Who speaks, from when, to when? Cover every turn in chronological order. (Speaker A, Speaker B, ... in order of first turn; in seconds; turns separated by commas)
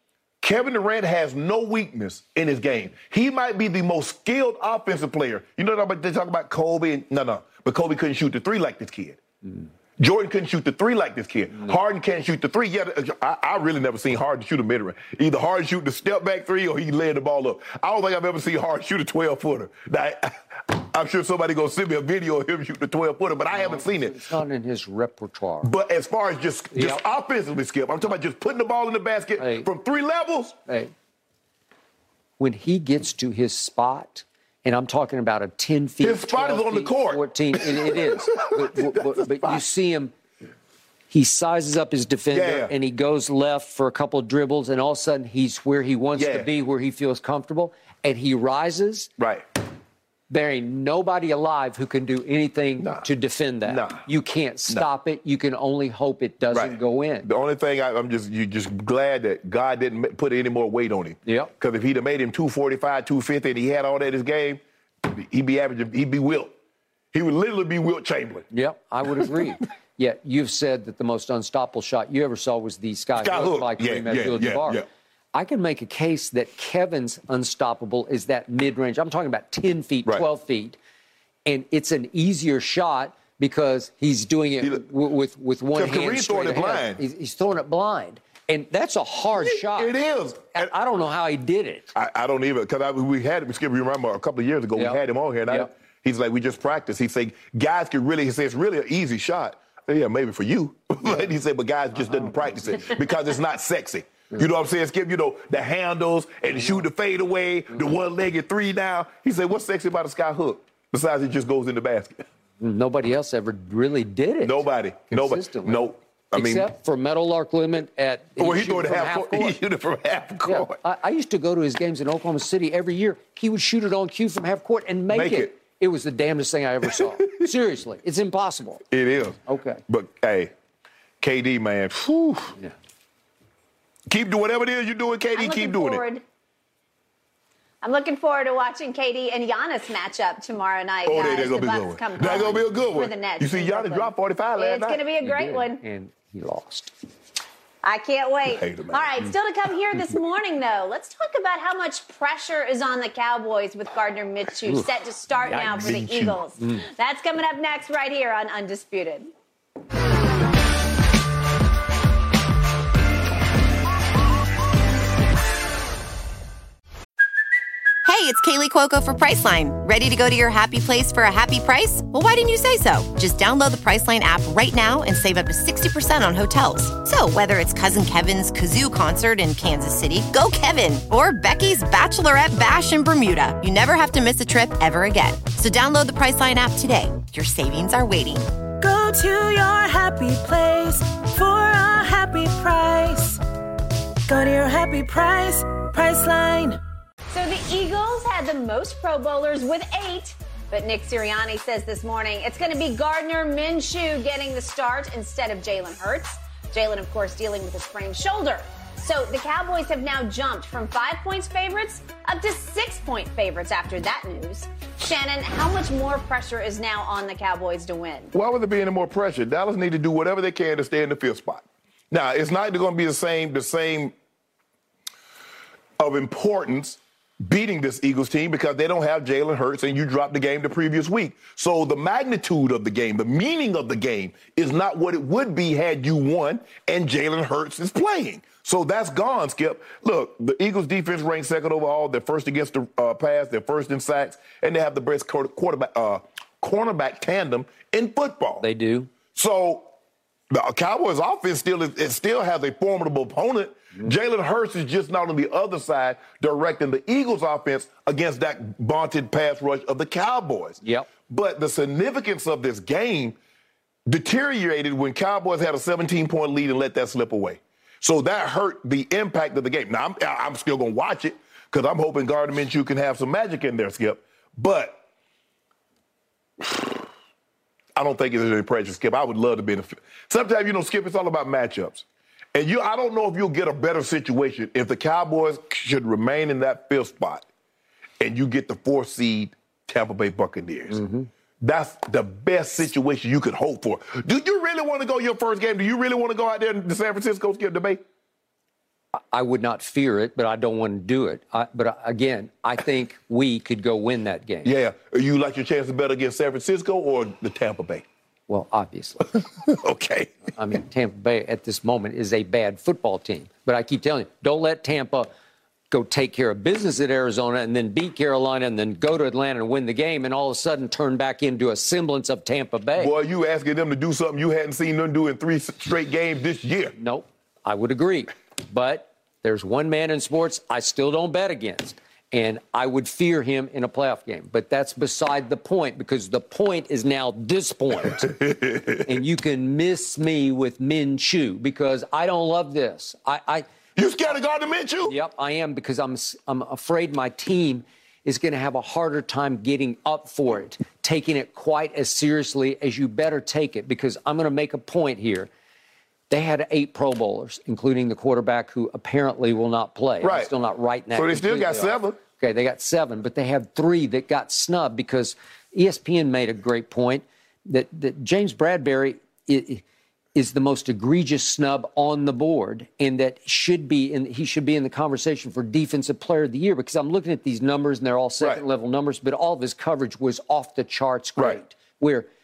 Speaker A: 0.4-9.2, Speaker A: 10.0-24.2, Speaker B: 11.6-11.8, Speaker B: 23.5-25.7, Speaker A: 25.6-30.6, Speaker B: 26.7-27.0, Speaker B: 29.4-29.7, Speaker B: 30.7-30.9, Speaker B: 32.4-40.1, Speaker A: 36.0-39.6, Speaker B: 41.1-49.1, Speaker A: 42.3-42.7, Speaker A: 46.2-46.5, Speaker A: 49.2-49.5, Speaker B: 50.3-57.3, Speaker A: 52.8-53.1, Speaker A: 53.6-54.1, Speaker A: 56.5-66.5, Speaker B: 61.2-61.5, Speaker A: 67.1-68.5, Speaker B: 68.5-74.8, Speaker A: 69.0-69.5, Speaker A: 73.2-74.9, Speaker B: 75.3-80.8, Speaker B: 81.5-89.9, Speaker A: 85.7-87.0, Speaker A: 89.3-90.7, Speaker B: 90.5-91.9, Speaker A: 91.9-112.3, Speaker B: 94.8-95.7, Speaker B: 102.0-103.0, Speaker B: 112.6-119.6, Speaker A: 114.4-116.7, Speaker A: 118.4-120.8, Speaker B: 120.4-128.8, Speaker A: 125.1-125.5, Speaker A: 126.8-127.5, Speaker A: 128.9-130.5, Speaker B: 129.5-129.8, Speaker A: 131.2-132.5, Speaker A: 134.1-136.0, Speaker C: 135.3-136.2, Speaker C: 137.8-145.8, Speaker A: 141.1-145.0, Speaker B: 145.2-146.9, Speaker C: 147.8-159.3, Speaker A: 148.5-149.1, Speaker A: 155.5-156.4, Speaker B: 156.6-156.8, Speaker D: 168.1-188.5, Speaker E: 188.8-193.4, Speaker E: 194.3-196.8, Speaker C: 197.3-218.3, Speaker A: 218.3-224.2, Speaker A: 226.0-248.7, Speaker B: 248.6-249.1, Speaker A: 249.3-249.9, Speaker A: 250.5-263.4, Speaker B: 260.8-261.1, Speaker A: 264.1-275.0, Speaker A: 276.6-277.1, Speaker A: 278.0-287.5, Speaker A: 288.2-291.0, Speaker B: 290.9-291.3, Speaker A: 291.6-298.0, Speaker B: 299.3-304.7, Speaker A: 304.6-308.1, Speaker B: 308.5-309.3, Speaker A: 309.3-310.4, Speaker B: 310.6-315.3, Speaker B: 315.9-323.1, Speaker A: 323.0-326.9, Speaker B: 327.0-338.3, Speaker A: 338.0-339.1, Speaker B: 339.1-343.7, Speaker A: 344.0-345.2, Speaker B: 345.1-355.5, Speaker B: 356.3-369.8, Speaker A: 360.2-360.5, Speaker A: 361.1-362.2, Speaker B: 370.4-382.3